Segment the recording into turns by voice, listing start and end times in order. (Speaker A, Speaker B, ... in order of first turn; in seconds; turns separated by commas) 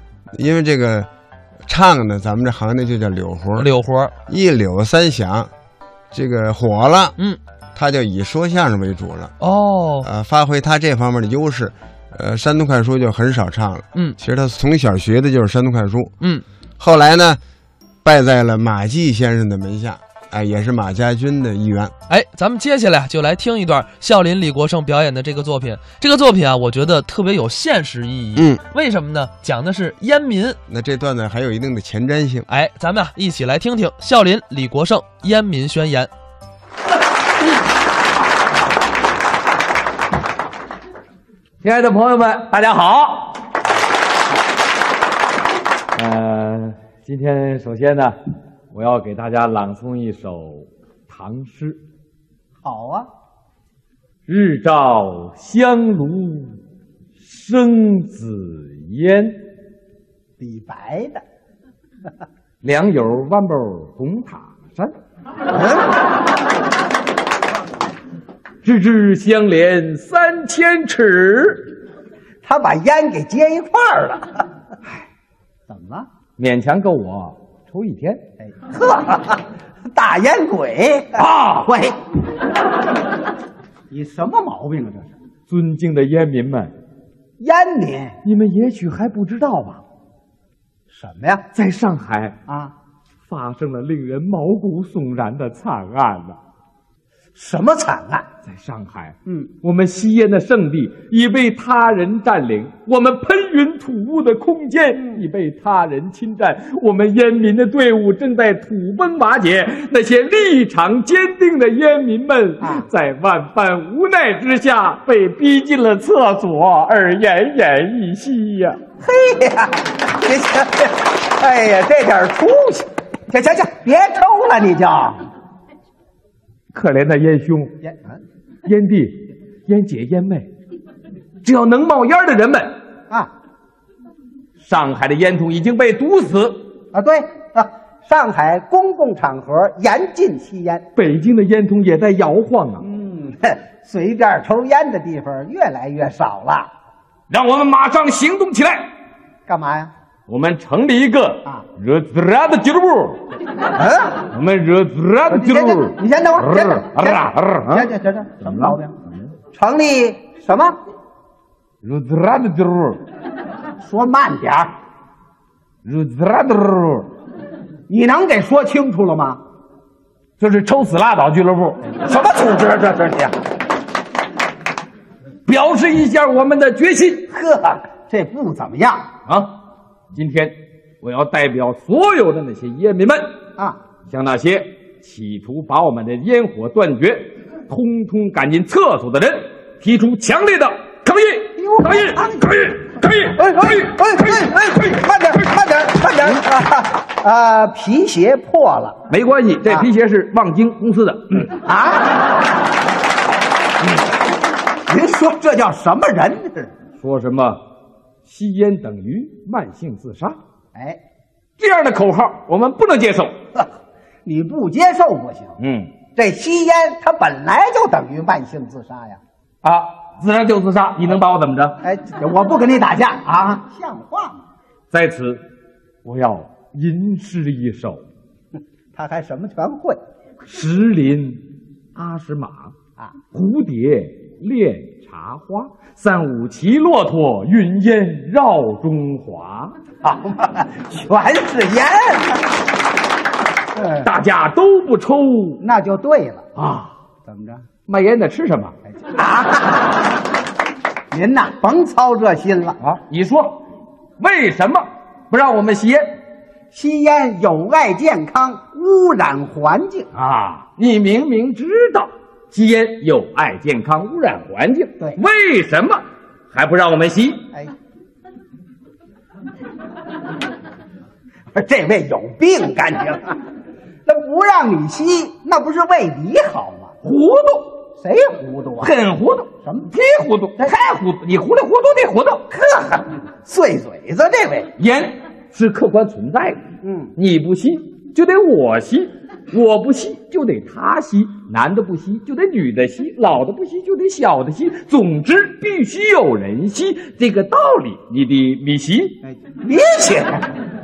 Speaker A: 0.3-1.1, Speaker A: 1.7-3.7, Speaker B: 3.6-4.1, Speaker A: 4.3-5.5, Speaker A: 6.1-7.2, Speaker A: 7.8-9.3, Speaker B: 9.4-10.1, Speaker A: 10.0-16.1, Speaker A: 16.8-17.4, Speaker A: 18.0-21.9, Speaker B: 22.1-30.6, Speaker A: 28.4-28.6, Speaker A: 30.7-32.5, Speaker B: 32.5-36.1, Speaker C: 41.6-43.4, Speaker C: 46.0-48.1, Speaker C: 48.7-51.8, Speaker D: 52.6-53.1, Speaker C: 54.3-56.6, Speaker C: 57.2-59.4, Speaker D: 60.4-61.2, Speaker C: 62.6-64.9, Speaker C: 68.6-71.7, Speaker D: 72.4-74.5, Speaker D: 75.7-76.1, Speaker C: 76.4-78.2, Speaker D: 78.4-82.0, Speaker C: 81.2-81.7, Speaker D: 83.9-85.1, Speaker C: 85.5-86.7, Speaker D: 87.4-88.2, Speaker C: 88.2-89.8, Speaker D: 90.9-91.5, Speaker C: 91.5-92.3, Speaker D: 92.5-92.7, Speaker C: 93.3-96.4, Speaker D: 97.4-98.3, Speaker C: 98.5-118.8, Speaker D: 119.0-125.2, Speaker C: 126.7-127.7, Speaker D: 127.8-128.2, Speaker C: 128.7-130.5, Speaker C: 131.4-132.8, Speaker C: 134.6-136.7, Speaker D: 136.9-140.8, Speaker C: 141.0-142.8, Speaker D: 142.8-146.7, Speaker C: 147.3-148.9, Speaker D: 149.5-149.9, Speaker C: 150.3-153.2, Speaker D: 153.7-154.2, Speaker C: 154.3-157.9, Speaker D: 155.3-158.9, Speaker C: 158.4-158.8, Speaker D: 159.5-160.8, Speaker C: 161.8-163.0, Speaker D: 163.8-164.7, Speaker C: 165.8-167.1, Speaker D: 167.9-169.4, Speaker C: 170.4-171.9, Speaker D: 171.9-173.3, Speaker C: 175.5-177.3, Speaker D: 177.3-179.1, Speaker C: 179.3-179.5, Speaker C: 180.1-183.3, Speaker C: 184.1-193.9, Speaker D: 191.6-192.4, Speaker D: 193.3-199.0, Speaker C: 199.1-201.6, Speaker D: 201.6-202.3, Speaker D: 204.9-206.7, Speaker C: 207.0-207.6, Speaker C: 208.2-210.4, Speaker D: 210.7-211.0, Speaker C: 211.6-213.3, Speaker D: 214.2-215.6, Speaker C: 215.6-215.9, Speaker D: 216.2-219.2, Speaker C: 219.6-221.8, Speaker D: 221.8-224.4, Speaker C: 224.9-225.4, Speaker C: 226.0-228.0, Speaker D: 228.9-230.0, Speaker C: 230.5-231.4, Speaker C: 231.9-232.7, Speaker C: 233.3-239.8, Speaker D: 240.0-242.5, Speaker D: 243.7-244.1, Speaker C: 244.0-245.6, Speaker D: 245.6-246.5, Speaker C: 246.6-246.9, Speaker D: 247.2-247.6, Speaker C: 247.9-248.7, Speaker D: 248.9-250.0, Speaker D: 251.1-252.8, Speaker C: 252.8-253.6, Speaker C: 254.2-256.1, Speaker D: 256.7-260.1, Speaker C: 260.1-267.4, Speaker D: 271.5-273.4, Speaker D: 274.1-276.9, Speaker C: 277.0-277.7, Speaker D: 278.0-278.9, Speaker C: 278.8-282.4, Speaker D: 279.6-279.9, Speaker D: 282.5-284.7, Speaker C: 284.8-286.6, Speaker D: 286.8-287.1, Speaker C: 287.2-299.2, Speaker D: 299.2-300.5